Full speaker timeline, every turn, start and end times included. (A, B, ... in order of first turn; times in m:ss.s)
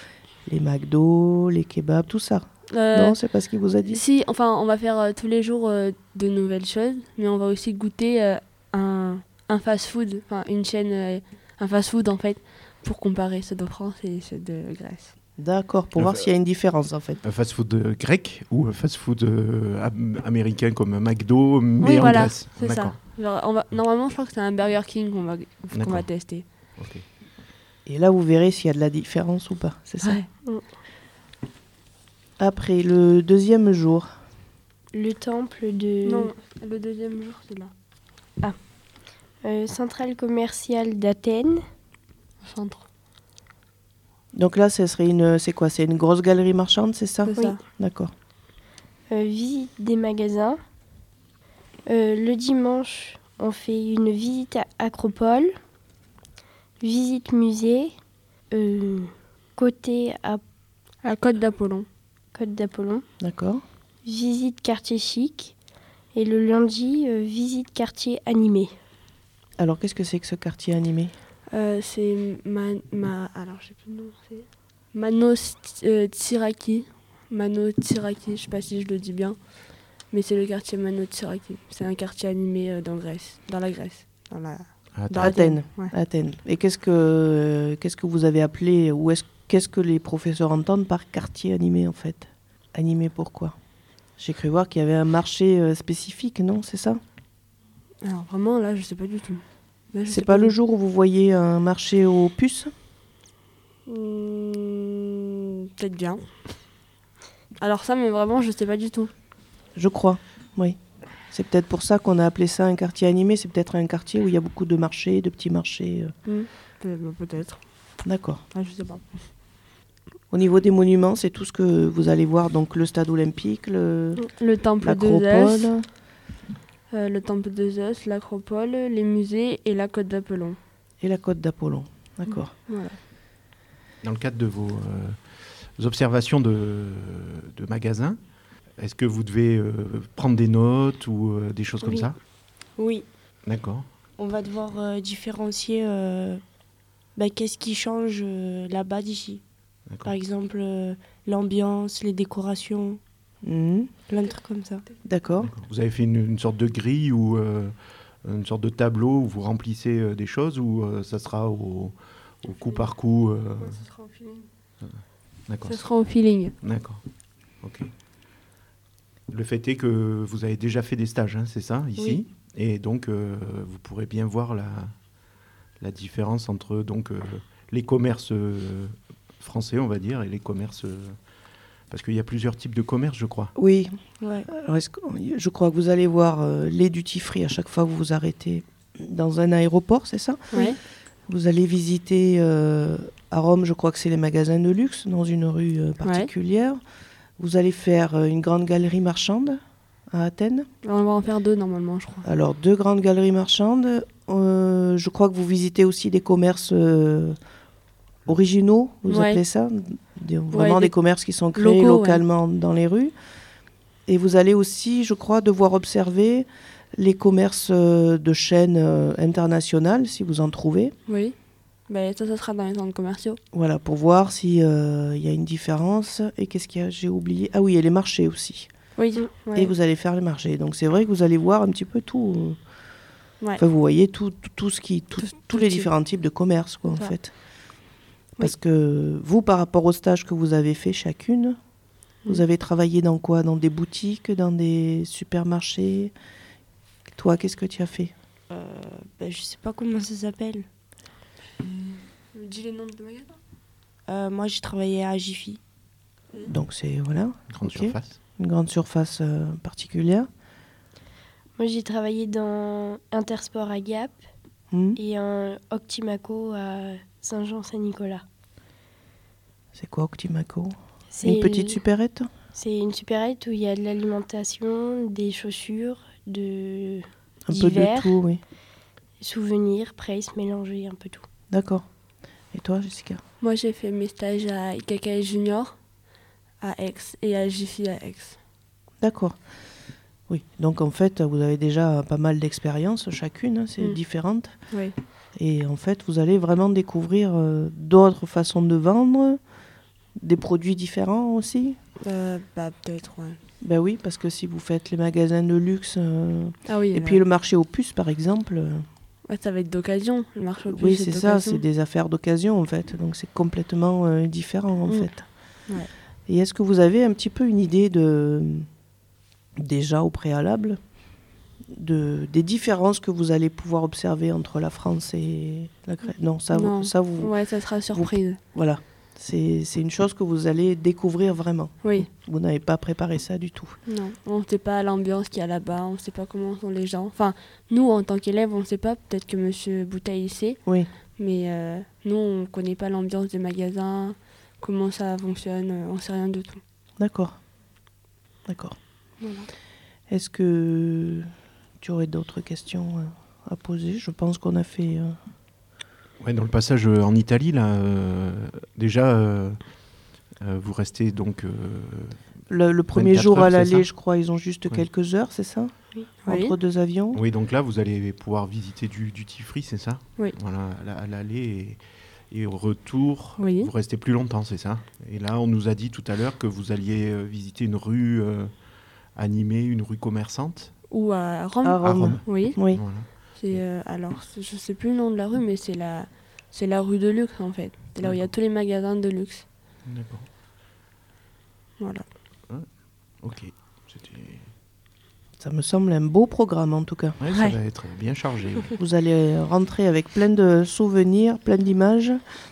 0:00.5-0:04.0 A
0:02.7-0:03.2 B
0:03.9-0:15.1 B
0:15.4-0:17.2 A
0:16.0-0:16.3 C
0:17.2-0:23.0 C
0:21.8-0:26.5 B
0:25.7-0:26.1 C
0:26.8-0:27.0 C
0:27.9-0:30.2 A
0:30.0-0:30.3 B
0:32.4-0:34.1 A
0:34.9-0:36.3 D
0:36.1-0:37.7 B
0:39.4-0:41.6 D
0:42.4-0:42.8 B
0:44.3-0:48.1 A
0:47.3-0:47.6 B
0:49.1-0:50.6 D
0:51.9-0:55.6 D
0:56.8-0:58.0 D
0:58.5-1:00.4 D
1:01.0-1:01.9 B
1:02.3-1:03.1 D
1:03.2-1:03.6 A
1:04.0-1:05.6 D
1:06.1-1:08.8 D
1:09.6-1:11.1 A
1:11.5-1:19.4 B
1:20.1-1:25.9 B
1:25.0-1:25.4 C
1:25.2-1:33.6 A
1:34.2-1:37.0 A
1:38.0-1:40.5 B
1:40.1-1:42.7 A
1:43.9-1:46.6 B
1:47.6-1:49.1 B
1:49.8-1:50.8 A
1:51.3-1:56.1 A
1:56.3-1:57.6 B
1:58.0-1:58.4 A
1:58.5-1:59.1 B
2:00.3-2:04.2 A
2:04.3-2:05.8 B
2:04.8-2:05.8 A
2:06.9-2:10.6 B
2:11.0-2:12.5 A
2:12.3-2:13.0 B
2:14.0-2:15.2 C
2:15.8-2:18.2 C
2:18.8-2:22.2 C
2:22.8-2:23.1 E
2:23.5-2:23.9 C
2:24.2-2:26.4 E
2:27.2-2:29.4 E
2:29.9-2:30.2 C
2:30.0-2:33.0 E
2:33.4-2:33.9 A
2:34.0-2:34.9 E
2:35.0-2:35.5 A
2:35.4-2:43.8 C
2:42.6-2:42.9 B
2:43.6-2:44.5 B
2:44.8-2:45.9 C
2:45.6-2:46.5 B
2:46.6-2:47.0 C
2:47.6-2:47.9 C
2:49.3-2:54.9 C
2:52.0-2:52.2 E
2:55.8-3:01.2 C
3:01.9-3:03.5 C
3:03.6-3:03.9 A
3:04.2-3:04.5 E
3:04.5-3:10.7 A
3:10.5-3:10.8 B
3:11.3-3:16.8 A
3:16.0-3:16.3 B
3:17.4-3:20.7 A
3:20.8-3:22.2 B
3:22.2-3:27.4 A
3:28.3-3:33.1 A
3:29.1-3:29.4 B
3:30.5-3:30.9 B
3:31.5-3:32.2 B
3:34.1-3:41.0 A
3:41.1-3:41.4 B
3:41.9-3:43.4 B
3:43.5-3:48.7 A
3:49.0-3:49.7 B
3:49.5-3:52.6 A
3:53.6-3:57.3 A
3:55.3-3:55.9 B
3:58.4-4:01.6 A
4:02.3-4:06.1 A
4:07.1-4:08.1 A
4:08.5-4:10.7 E
4:11.7-4:13.4 B
4:14.1-4:15.6 E
4:16.5-4:20.3 A
4:17.5-4:18.2 C
4:21.6-4:24.2 D
4:24.7-4:25.0 A
4:25.0-4:28.2 D
4:29.8-4:32.3 A
4:31.1-4:31.8 D
4:32.5-4:38.2 D
4:37.5-4:38.4 A
4:39.2-4:41.3 D
4:41.5-4:41.9 A
4:42.5-4:43.2 A
4:43.4-4:45.8 B
4:46.6-4:48.4 B
4:49.0-4:49.4 A
4:50.3-4:54.5 A
4:53.8-4:54.9 B
4:55.4-4:59.4 A
5:00.2-5:01.8 A
5:02.0-5:03.4 B
5:03.6-5:08.8 A
5:06.7-5:07.3 B
5:09.3-5:11.6 B
5:10.7-5:15.3 A
5:14.9-5:15.9 B
5:16.3-5:18.7 A
5:19.6-5:20.8 A
5:21.7-5:27.3 A
5:26.0-5:28.4 B
5:27.9-5:33.8 A
5:31.8-5:32.1 B
5:33.9-5:40.6 B
5:41.2-5:46.6 B
5:47.0-5:47.4 A
5:48.5-5:48.8 A
5:49.2-5:49.5 B
5:50.1-5:51.3 A
5:51.8-5:55.2 A
5:56.2-5:59.6 C
6:00.4-6:02.2 C
6:02.5-6:07.2 A
6:02.9-6:03.9 C
6:06.2-6:06.5 B
6:07.1-6:18.5 C
6:13.4-6:13.7 B
6:19.2-6:20.7 C
6:20.9-6:22.6 B
6:21.6-6:22.8 A
6:21.8-6:23.6 C
6:23.1-6:29.5 B
6:28.0-6:28.3 C
6:29.8-6:30.3 C
6:33.2-6:34.5 C
6:35.4-6:37.2 A
6:37.2-6:38.8 C
6:37.3-6:37.6 B
6:38.8-6:42.2 A